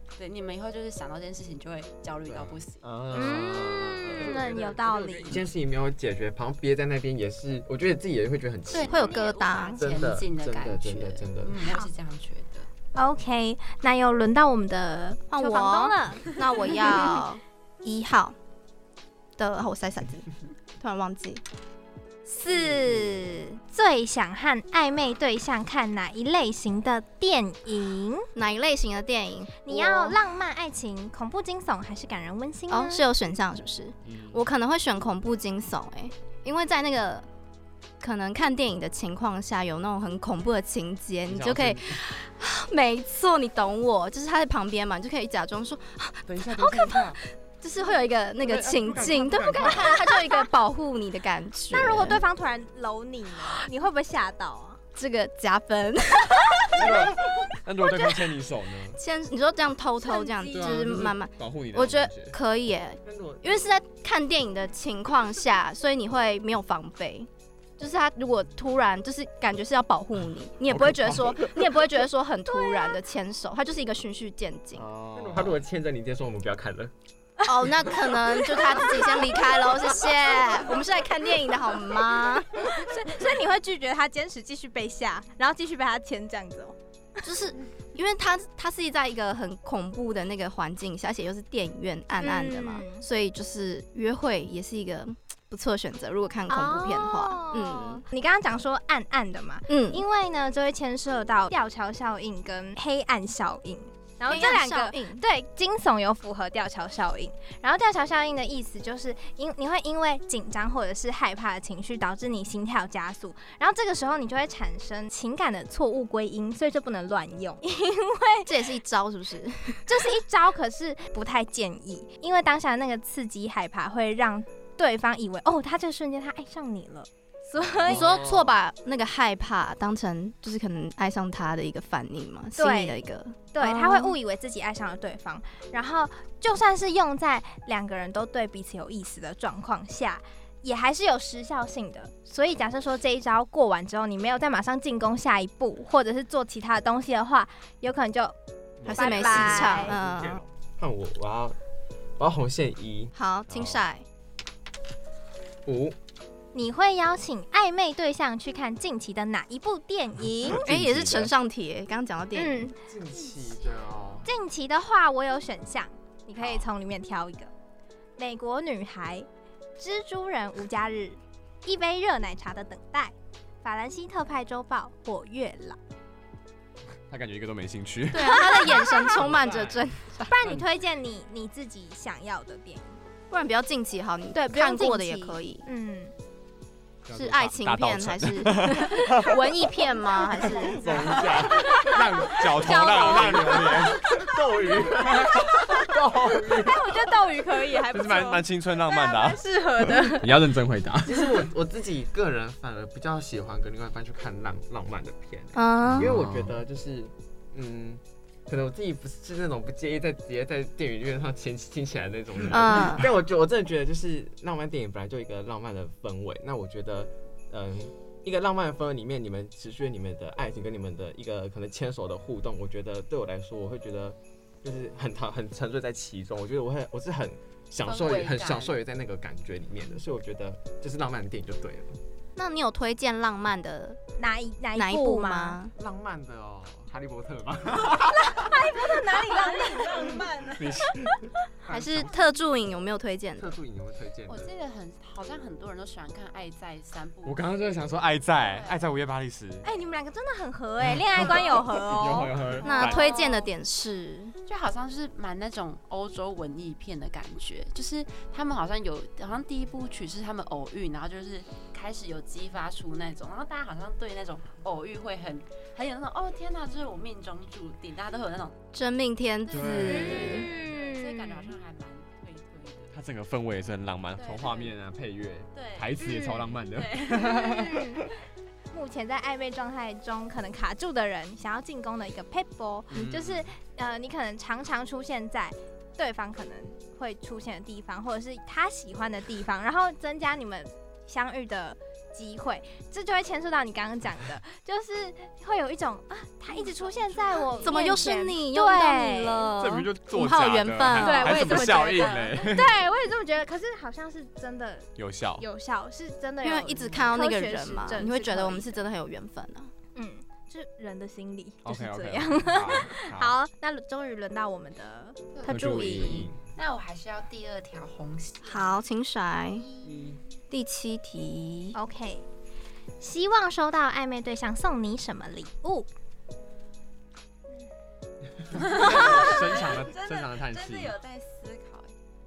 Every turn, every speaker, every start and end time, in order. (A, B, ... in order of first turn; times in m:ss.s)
0:00.2-0:02.8 A
0:02.3-0:09.1 B
0:02.8-0:04.7 C
0:03.1-0:05.4 D
0:08.7-0:12.7 A
0:08.9-0:09.8 E
0:09.8-0:11.6 B
0:12.9-0:16.4 D
0:15.3-0:18.4 E
0:19.4-0:20.2 E
0:20.8-0:21.4 E
0:22.2-0:28.3 D
0:28.4-0:30.2 E
0:29.6-0:33.0 D
0:32.7-0:37.2 E
0:34.0-0:34.4 C
0:38.0-0:52.2 E
0:41.3-0:42.0 C
0:46.3-0:47.2 C
0:48.4-0:49.9 C
0:51.7-0:54.8 D
0:55.0-0:57.1 E
0:56.7-0:59.0 C
0:57.8-0:58.3 E
0:58.9-1:14.9 E
1:00.0-1:00.9 D
1:00.5-1:02.3 C
1:03.0-1:03.6 B
1:10.7-1:11.6 C
1:12.5-1:13.0 D
1:14.8-1:15.6 C
1:15.1-1:16.9 B
1:17.4-1:22.8 E
1:18.5-1:19.3 D
1:22.6-1:26.8 D
1:27.2-1:38.0 E
1:32.2-1:33.0 D
1:36.5-1:58.5 D
1:39.7-1:40.0 E
1:44.2-1:45.2 E
1:58.4-2:00.0 E
1:59.9-2:08.2 D
2:07.7-2:08.5 C
2:07.8-2:14.2 E
2:12.6-2:13.0 D
2:13.5-2:28.3 D
2:28.8-2:31.6 B
2:28.9-2:30.4 E
2:28.9-2:29.9 D
2:32.2-2:33.1 B
2:33.1-2:34.0 E
2:33.5-2:33.8 C
2:35.6-2:36.0 B
2:36.5-2:40.6 D
2:40.4-2:41.3 C
2:40.5-2:42.7 E
2:42.3-2:42.7 D
2:42.8-2:44.3 B
2:44.2-2:47.5 D
2:48.2-2:55.8 D
2:57.1-2:59.7 C
2:58.1-3:00.3 E
2:58.2-2:59.1 D
2:59.2-2:59.8 B
3:00.3-3:03.0 D
3:03.3-3:05.6 E
3:04.3-3:06.1 D
3:07.0-3:09.5 C
3:07.1-3:11.1 E
3:10.4-3:14.0 C
3:10.8-3:16.7 B
3:11.8-3:13.8 D
3:15.2-3:16.6 C
3:16.5-3:20.3 D
3:17.8-3:21.3 C
3:21.0-3:52.0 B
3:25.5-3:26.1 E
3:25.9-3:26.6 C
3:32.5-3:33.1 E
3:47.8-3:48.8 A
3:52.4-3:54.0 E
3:54.2-3:55.6 D
3:54.7-3:55.7 E
3:55.7-3:58.7 B
3:58.1-4:00.6 D
3:59.2-4:00.6 A
4:00.6-4:01.2 C
4:01.6-4:02.3 B
4:01.7-4:03.6 E
4:03.4-4:04.5 B
4:04.3-4:07.6 A
4:07.2-4:09.7 C
4:08.3-4:08.9 A
4:09.6-4:13.4 D
4:10.9-4:13.1 C
4:12.5-4:13.3 A
4:12.6-4:14.3 E
4:14.5-4:28.6 A
4:28.7-4:30.4 E
4:29.4-4:32.9 A
4:29.5-4:30.5 C
4:29.8-4:31.5 D
4:32.9-4:38.1 C
4:34.2-4:34.7 A
4:35.5-4:37.3 A
4:37.2-4:38.1 D
4:38.7-4:59.5 D
4:42.9-4:43.5 C
4:56.5-4:57.8 A
4:57.6-5:01.7 E
4:59.6-5:02.8 C
5:01.0-5:08.8 D
5:01.3-5:02.4 A
5:05.0-5:05.4 C
5:06.4-5:09.7 E
5:10.0-5:16.3 D
5:11.6-5:13.3 C
5:15.4-5:18.8 A
5:15.5-5:16.4 C
5:18.4-5:19.6 E
5:19.6-5:20.1 A
5:20.5-5:21.7 E
5:21.7-5:22.2 D
5:23.0-5:25.9 D
5:28.5-5:31.9 A
5:28.5-5:30.9 C